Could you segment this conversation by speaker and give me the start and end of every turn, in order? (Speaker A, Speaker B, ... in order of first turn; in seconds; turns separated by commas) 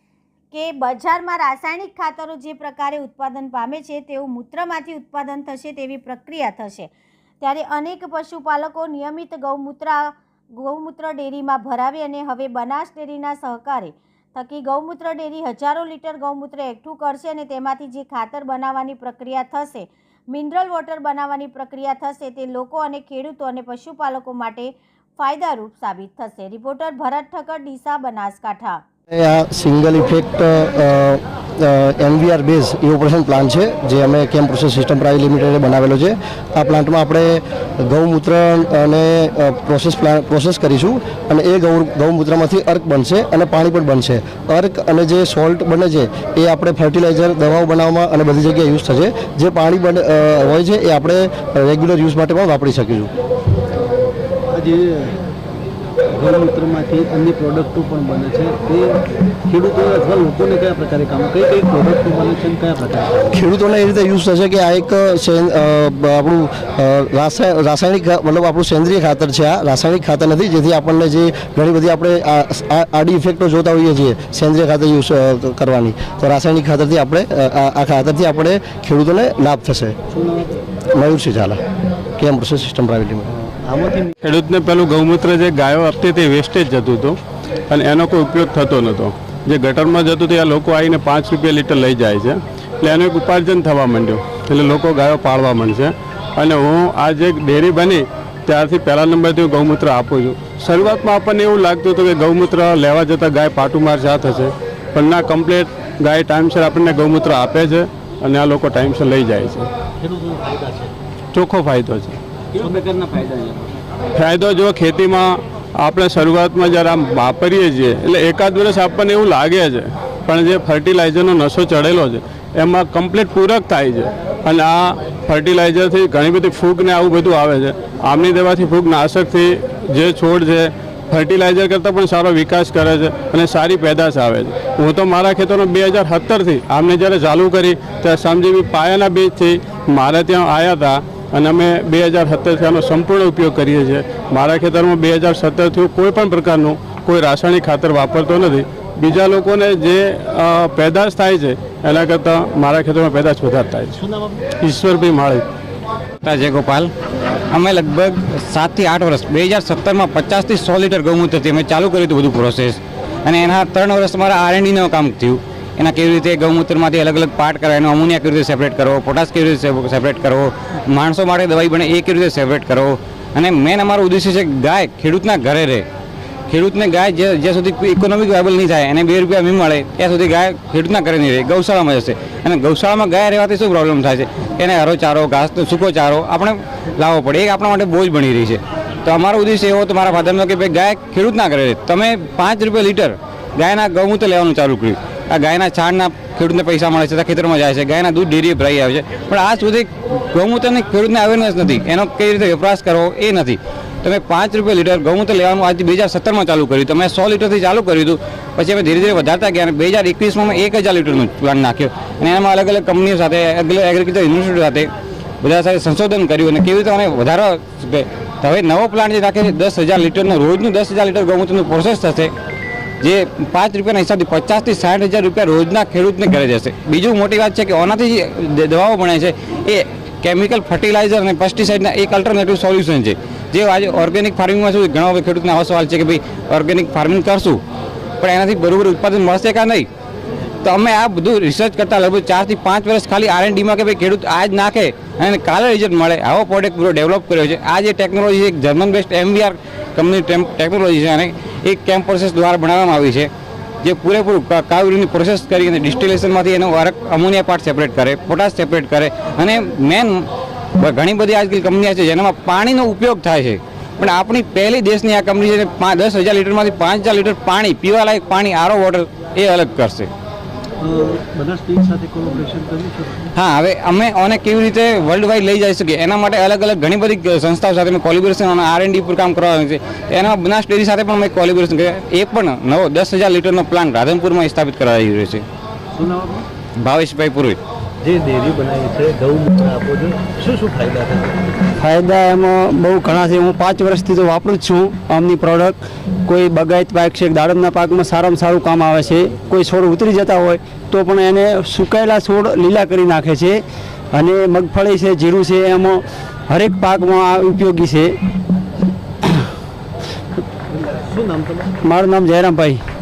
Speaker A: 0.5-6.9, Speaker A: 7.4-28.8, Speaker B: 29.1-53.1, Speaker C: 54.5-55.2, Speaker C: 56.1-63.4, Speaker B: 63.3-80.0, Speaker C: 80.1-80.6, Speaker B: 81.0-81.6, Speaker B: 82.2-83.3, Speaker C: 83.4-84.1, Speaker D: 84.2-87.2, Speaker D: 87.7-109.7, Speaker C: 110.0-110.9, Speaker D: 111.3-112.2, Speaker E: 112.6-113.7, Speaker C: 112.9-113.2, Speaker D: 114.1-154.0, Speaker D: 154.6-155.4, Speaker E: 156.2-156.9, Speaker E: 157.5-175.8, Speaker E: 176.5-214.9, Speaker E: 215.4-222.3, Speaker E: 223.0-237.6, Speaker E: 238.2-239.8, Speaker E: 240.6-253.3, Speaker E: 253.8-260.2, Speaker E: 260.8-270.1, Speaker C: 270.8-273.2, Speaker E: 273.3-285.4, Speaker C: 285.9-286.4, Speaker E: 286.8-287.6, Speaker C: 288.0-291.7, Speaker F: 291.8-303.6, Speaker F: 304.1-308.1, Speaker C: 310.7-311.7, Speaker F: 311.8-312.8